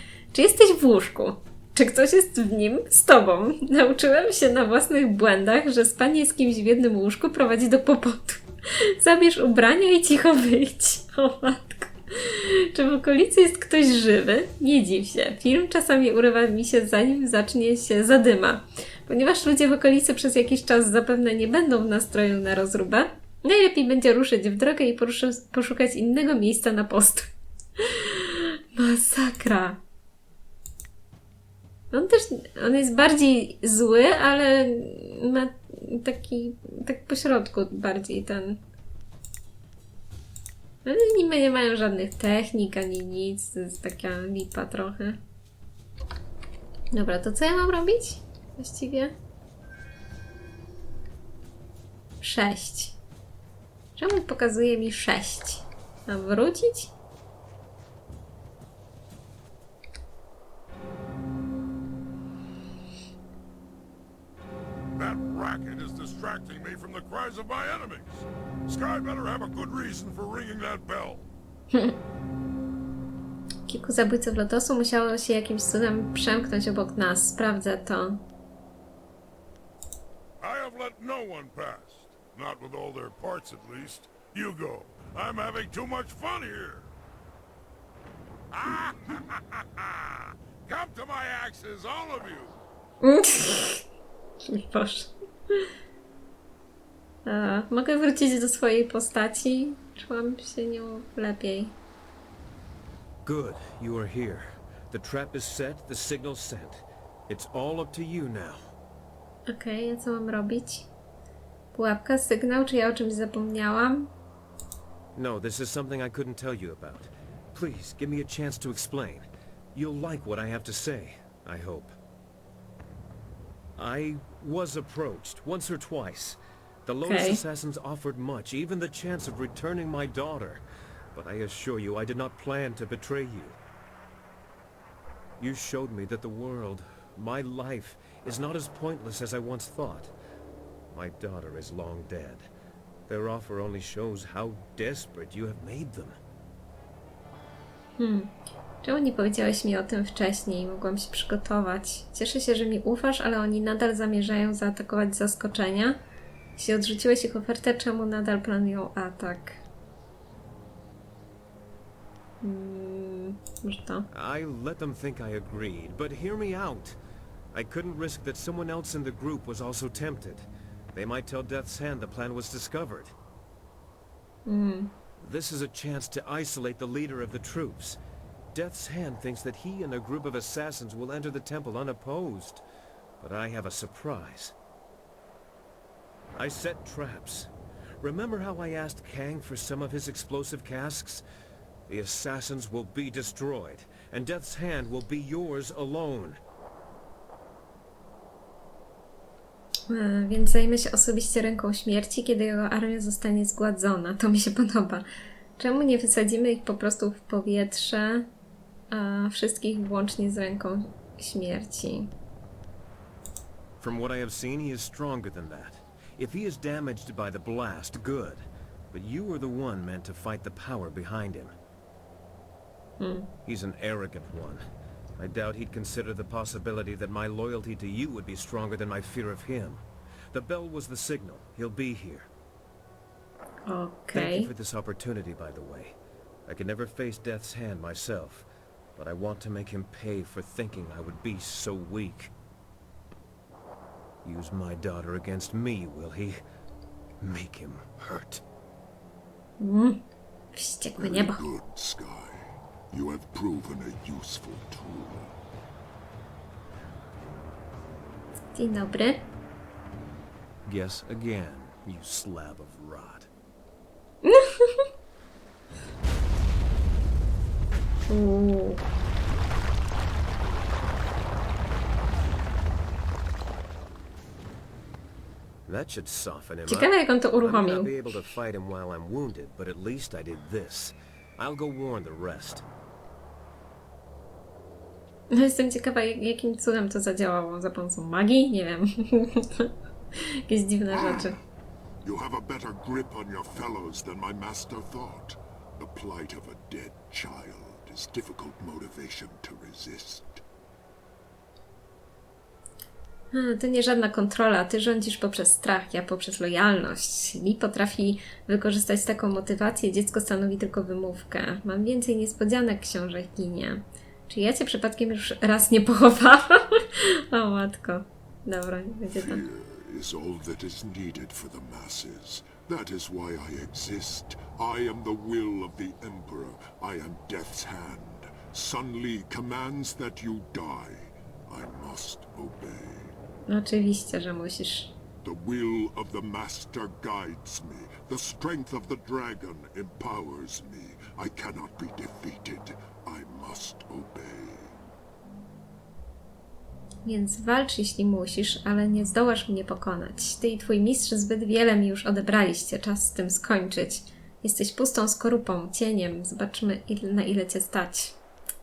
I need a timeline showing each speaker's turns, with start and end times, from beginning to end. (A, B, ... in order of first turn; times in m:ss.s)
0:00.3-0:29.8 A
0:31.9-0:38.6 A
0:40.8-0:45.2 A
0:46.9-0:49.1 A
0:52.2-0:53.0 A
0:54.0-0:56.9 A
1:05.0-1:11.3 B
1:13.7-1:18.2 A
1:20.4-1:26.9 B
1:28.5-1:32.6 B
1:33.0-1:33.8 A
1:34.4-1:35.1 A
1:37.2-1:41.7 A
1:43.2-1:48.6 C
1:49.5-1:50.9 A
1:51.7-1:54.1 A
1:55.1-2:01.9 C
2:03.8-2:10.6 C
2:07.0-2:07.4 A
2:11.1-2:13.6 C
2:15.4-2:20.1 C
2:20.9-2:22.5 C
2:23.1-2:26.2 C
2:28.0-2:36.0 A
2:36.6-2:39.6 A
2:42.4-2:44.1 A
2:44.1-2:47.0 C
2:47.5-2:53.1 C
2:54.4-2:54.9 A
2:55.2-2:58.0 C
2:58.5-3:02.6 C
3:03.2-3:04.5 C
3:06.3-3:07.5 C
3:08.0-3:11.2 C
3:11.9-3:16.4 C
3:19.9-3:25.0 A
3:25.6-3:28.3 A
3:28.9-3:32.1 A
3:33.8-3:41.5 C
3:43.0-3:43.3 A
3:43.4-3:44.6 C
3:45.2-3:49.8 C
3:50.3-3:52.3 C
3:53.7-3:54.5 A
3:54.1-3:55.9 C
3:56.4-4:02.3 C
4:04.2-4:06.4 C
4:07.2-4:08.4 C
4:09.6-4:10.0 A
4:10.5-4:11.4 A
4:11.0-4:15.3 D
4:18.5-4:19.2 A
4:20.6-4:23.3 C
4:24.2-4:24.9 A
4:28.1-4:28.8 A
4:35.6-4:42.6 C
4:36.7-4:37.9 A
4:45.3-4:51.4 A
4:50.9-4:51.3 D
4:52.0-5:00.4 D
5:03.3-5:19.4 A
5:19.1-5:33.1 D
5:33.5-5:34.9 A
5:35.2-5:44.7 D
5:47.0-5:58.2 A